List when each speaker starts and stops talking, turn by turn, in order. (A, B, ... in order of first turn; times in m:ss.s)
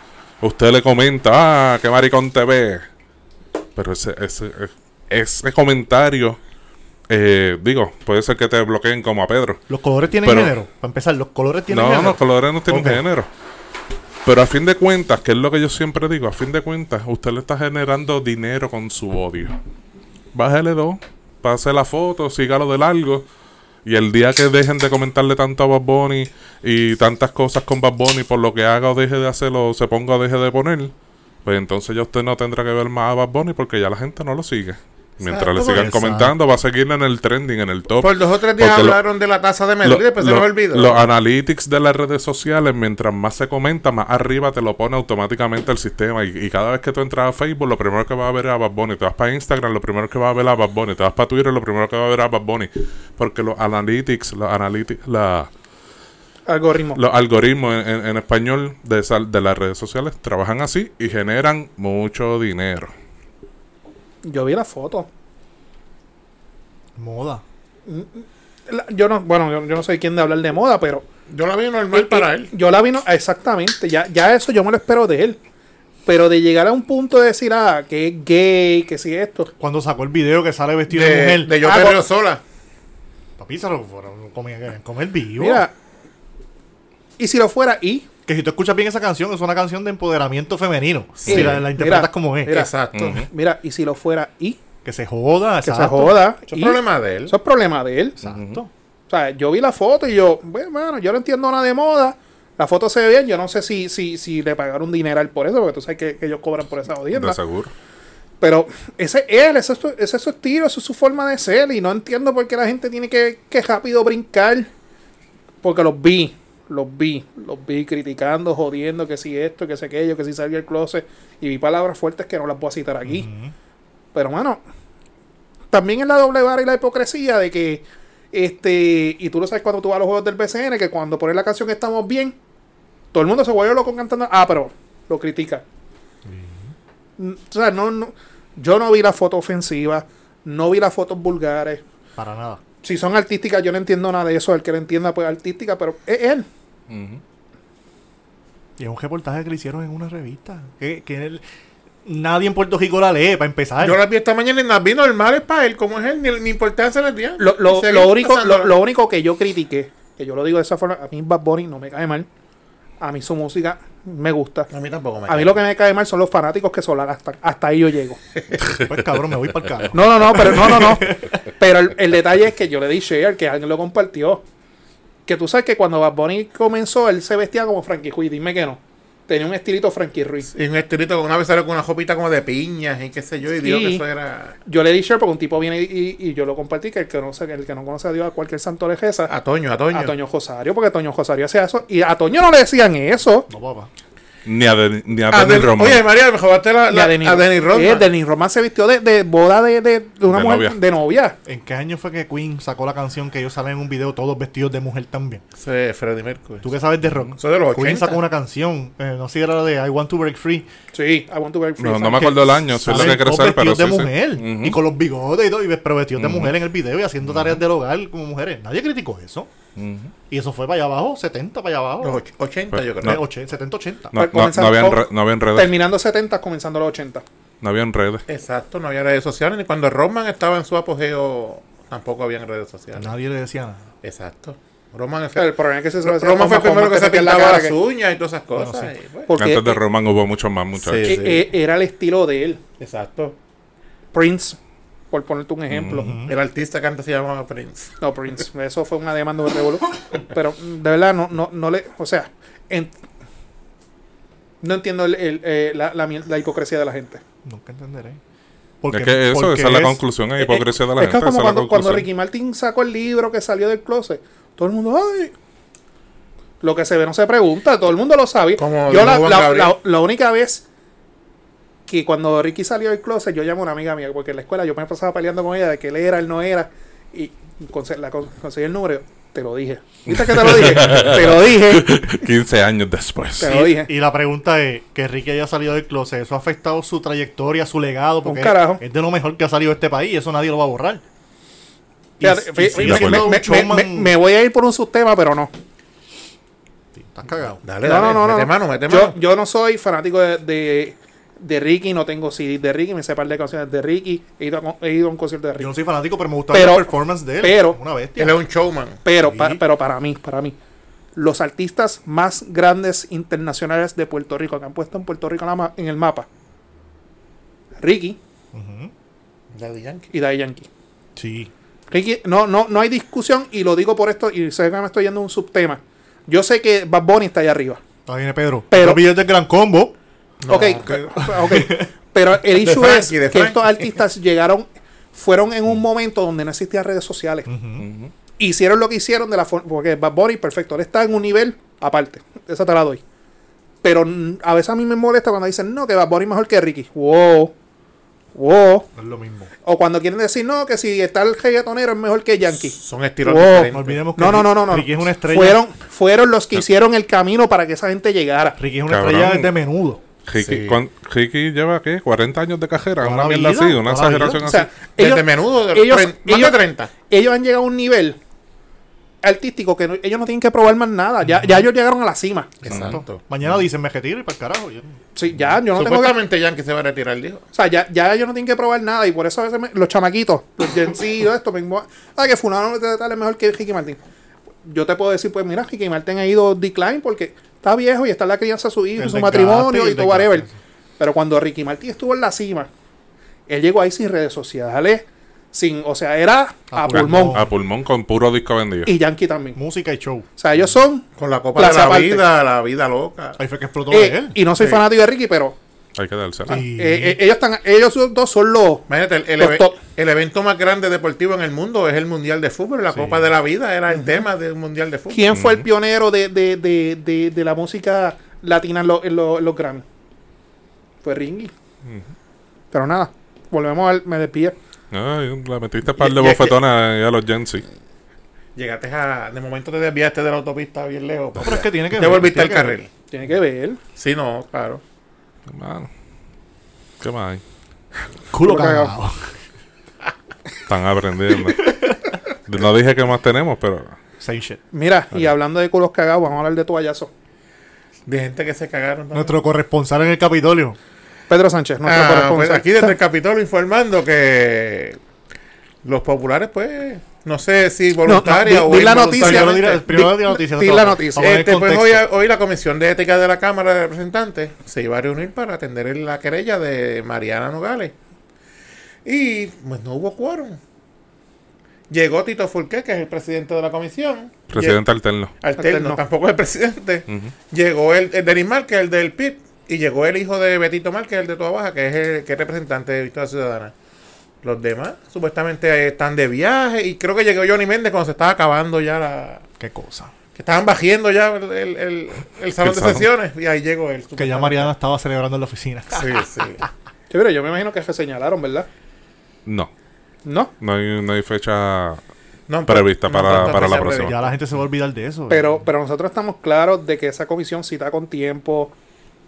0:00.4-0:02.8 A
0:03.8-0:06.4 A
0:07.1-0:09.6 A
0:09.7-0:13.0 B
0:10.2-0:10.5 A
0:11.7-0:13.3 A
0:14.2-0:19.6 A
0:20.3-0:23.2 A
0:23.8-0:30.9 A
0:31.4-0:39.0 A
0:35.2-0:35.9 C
0:35.7-0:36.3 B
0:38.0-0:41.0 C
0:39.8-0:55.5 A
0:56.5-0:57.0 D
0:57.0-1:02.9 A
1:04.2-1:05.1 D
1:07.0-1:07.4 B
1:07.8-1:11.0 D
1:11.3-1:12.5 C
1:11.9-1:15.4 D
1:16.0-1:19.5 D
1:19.6-1:21.5 B
1:20.9-1:22.4 C
1:21.6-1:22.0 D
1:23.4-1:25.6 B
1:25.4-1:25.7 D
1:27.2-1:28.1 D
1:28.3-1:32.6 B
1:31.2-1:31.6 C
1:31.3-1:34.6 D
1:32.5-1:33.2 C
1:32.9-1:33.2 A
1:34.8-1:36.2 B
1:35.6-1:38.2 D
1:36.5-1:37.3 C
1:38.2-1:38.7 B
1:38.2-1:38.6 A
1:39.1-1:47.4 D
1:47.1-1:47.7 A
1:48.4-1:54.7 D
1:55.6-2:03.3 D
2:03.0-2:03.5 B
2:04.1-2:04.6 D
2:05.7-2:12.4 D
2:13.1-2:15.6 D
2:16.2-2:16.7 B
2:17.2-2:21.8 D
2:22.2-2:22.6 B
2:22.8-2:26.5 D
2:26.9-2:27.2 A
2:28.8-2:31.4 B
2:32.0-2:34.0 B
2:33.8-2:38.7 C
2:37.4-2:42.3 D
2:43.0-2:44.7 D
2:44.7-2:45.5 C
2:45.3-2:48.2 D
2:48.8-2:51.4 B
2:49.9-2:54.4 D
2:55.2-3:00.5 D
3:00.5-3:04.6 C
3:03.6-3:04.0 D
3:04.6-3:09.3 D
3:09.3-3:10.1 C
3:09.9-3:13.5 D
3:13.5-3:13.9 B
3:14.4-3:16.0 A
3:15.3-3:18.1 C
3:16.9-3:21.4 D
3:20.3-3:20.8 A
3:21.4-3:25.4 B
3:25.6-3:26.6 C
3:26.6-3:30.6 B
3:27.4-3:28.2 C
3:30.9-3:32.6 D
3:31.8-3:34.8 A
3:32.2-3:39.5 B
3:36.2-3:36.5 A
3:37.2-3:37.6 A
3:39.8-3:40.1 A
3:40.3-3:42.2 B
3:42.0-3:43.2 C
3:42.7-3:43.2 A
3:43.0-3:44.1 B
3:44.1-3:45.7 A
3:44.1-3:47.2 D
3:47.6-3:48.2 A
3:48.3-3:53.1 C
3:52.9-3:53.9 B
3:54.0-3:59.3 C
3:55.4-3:57.8 D
3:58.6-3:58.9 B
3:59.3-3:59.8 D
3:59.4-4:01.2 A
4:00.7-4:01.4 C
4:01.0-4:02.6 D
4:02.8-4:03.4 C
4:04.1-4:04.6 D
4:05.1-4:06.1 D
4:05.7-4:06.4 B
4:06.2-4:07.9 C
4:08.0-4:12.9 D
4:14.6-4:17.2 D
4:17.4-4:18.2 B
4:18.8-4:20.0 B
4:18.9-4:22.1 A
4:20.4-4:25.3 D
4:26.6-4:30.6 D
4:28.6-4:29.7 C
4:31.9-4:42.0 D
4:40.1-4:43.7 A
4:43.4-4:43.9 D
4:43.5-4:51.0 B
4:48.2-4:48.8 D
4:52.2-4:54.1 B
4:52.2-4:55.5 D
4:52.7-4:53.3 A
4:56.9-4:57.6 B
4:57.6-4:59.1 C
4:57.8-5:05.7 D
5:05.6-5:08.4 B
5:06.5-5:07.8 D
5:08.2-5:09.0 C
5:09.0-5:10.6 D
5:09.2-5:09.6 B
5:11.1-5:16.3 D
5:17.8-5:18.2 D
5:18.5-5:18.9 B
5:19.5-5:20.1 C
5:20.1-5:20.7 D
5:21.2-5:21.5 B
5:21.9-5:27.8 D
5:28.0-5:30.0 B
5:28.7-5:29.0 D
5:30.4-5:30.9 C
5:30.5-5:37.5 D
5:30.8-5:31.9 B
5:32.6-5:33.9 C
5:37.5-5:37.9 B
5:37.8-5:38.1 A
5:38.4-5:43.0 D
5:43.8-5:47.5 D
5:48.3-5:48.9 D
5:49.0-5:49.5 B
5:49.6-5:58.6 D
5:52.6-5:54.0 C
5:53.7-5:55.6 B
5:58.6-6:00.0 B
5:58.9-5:59.5 A
6:00.2-6:04.7 A
6:00.4-6:00.8 C
6:03.0-6:04.4 B
6:04.4-6:08.2 D
6:05.0-6:06.9 C
6:09.2-6:12.6 D
6:11.3-6:11.6 B
6:12.6-6:13.2 C
6:12.7-6:13.0 A
6:12.7-6:15.0 B
6:15.1-6:16.2 D
6:15.7-6:17.4 C
6:17.5-6:24.0 D
6:24.6-6:30.5 D
6:29.0-6:30.6 B
6:31.0-6:32.7 D
6:33.5-6:37.4 D
6:36.7-6:37.5 B
6:37.3-6:38.9 A
6:38.8-6:39.6 D
6:39.6-6:40.3 B
6:40.4-6:42.2 D
6:41.2-6:43.4 C
6:43.4-6:44.4 B
6:43.9-6:45.6 D
6:46.0-6:46.6 A
6:46.5-6:49.8 D
6:46.5-6:47.2 B
6:48.9-6:55.3 C
6:52.9-6:53.3 B
6:53.9-6:54.2 D
6:55.1-6:59.8 D
6:55.3-6:55.6 A
7:01.0-7:01.5 D
7:02.7-7:04.6 D
7:04.9-7:07.6 A
7:06.0-7:06.6 C
7:08.6-7:12.9 C
7:11.4-7:12.8 B
7:13.1-7:13.8 D
7:14.0-7:14.8 C
7:15.5-7:15.9 A
7:17.0-7:17.4 A
7:18.3-7:19.4 B
7:18.4-7:18.9 D
7:20.6-7:21.8 A
7:21.6-7:22.0 B
7:22.4-7:24.0 A
7:24.2-7:24.6 B
7:24.7-7:27.1 D
7:28.0-7:29.4 C
7:29.1-7:30.8 B
7:31.3-7:33.0 D
7:31.8-7:35.0 C
7:35.8-7:39.8 C
7:38.0-7:41.3 D
7:39.1-7:42.0 B
7:41.2-7:47.9 C
7:49.0-7:50.6 C
7:51.9-7:54.8 C
7:54.5-7:55.3 A
7:55.4-8:03.7 C
7:55.6-7:56.0 D
8:04.4-8:09.4 C
8:09.6-8:10.1 B
8:10.3-8:14.7 C
8:12.6-8:13.1 A
8:14.2-8:16.2 B
8:15.9-8:16.6 C
8:17.1-8:18.7 D
8:20.2-8:20.5 D
8:20.6-8:22.0 A
8:22.5-8:24.3 C
8:22.7-8:24.2 A
8:23.4-8:25.6 B
8:25.3-8:28.7 D